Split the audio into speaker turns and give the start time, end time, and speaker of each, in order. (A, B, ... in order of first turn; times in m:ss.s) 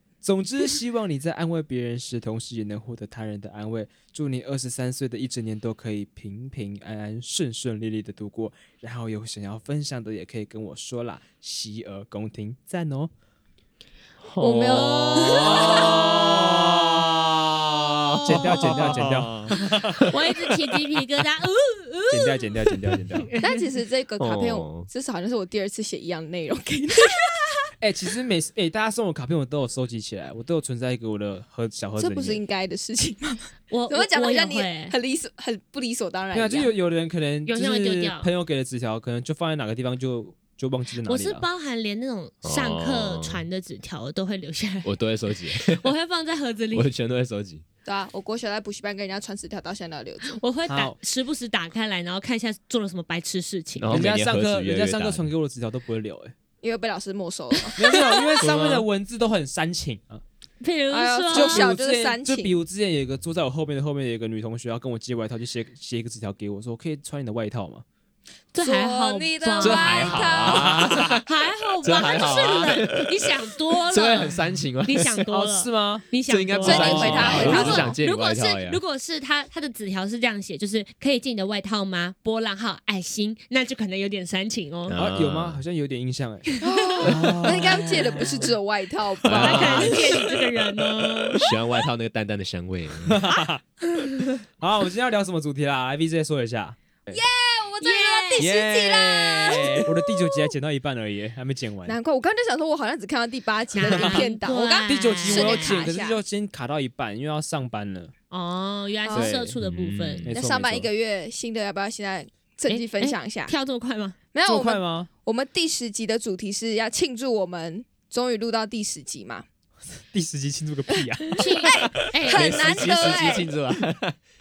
0:00.2-0:13.1 A
0:14.2-0:20.3 B
0:14.4-0:16.4 C
0:15.3-0:16.1 D
0:18.2-0:23.6 D
0:18.2-0:20.0 A
0:22.1-0:23.3 A
0:23.4-0:27.6 C
0:24.2-0:24.9 B
0:27.8-0:32.4 A
0:32.0-0:36.7 C
0:33.7-0:34.9 D
0:36.3-0:41.4 A
0:37.4-0:38.3 D
0:41.0-0:44.9 D
0:42.4-0:43.4 B
0:44.8-0:45.9 B
0:45.6-0:46.9 D
0:46.7-0:47.6 B
0:47.8-0:50.4 C
0:50.4-0:54.0 D
0:50.7-0:51.0 A
0:53.8-0:55.3 B
0:53.9-0:56.3 A
0:56.6-0:58.2 C
0:57.8-1:00.2 A
0:57.9-0:58.2 D
0:58.4-0:58.8 B
1:00.6-1:01.7 D
1:00.9-1:02.6 C
1:01.3-1:07.8 A
1:08.5-1:25.0 D
1:08.6-1:11.1 C
1:09.6-1:11.3 B
1:10.5-1:11.2 A
1:11.8-1:15.2 B
1:15.3-1:16.0 A
1:16.3-1:18.8 B
1:16.6-1:18.0 C
1:16.6-1:17.8 A
1:24.9-1:25.6 B
1:25.0-1:26.4 A
1:26.5-1:27.2 D
1:26.6-1:30.3 C
1:27.0-1:28.5 A
1:29.2-1:30.3 B
1:29.3-1:31.4 D
1:29.5-1:30.0 A
1:31.3-1:33.2 B
1:33.0-1:33.6 A
1:34.4-1:37.2 A
1:37.1-1:39.9 C
1:37.8-1:38.6 D
1:38.4-1:42.0 A
1:41.8-1:46.2 C
1:43.7-1:45.8 D
1:43.8-1:44.3 A
1:44.9-1:48.1 A
1:48.3-1:50.2 D
1:49.1-1:49.4 C
1:49.1-1:49.6 A
1:49.6-1:50.3 B
1:50.2-1:50.9 A
1:50.3-1:53.5 C
1:52.7-1:54.2 D
1:54.3-1:59.5 C
1:54.4-1:55.1 A
2:00.1-2:01.7 A
2:01.4-2:03.2 D
2:01.4-2:03.5 C
2:02.2-2:04.2 B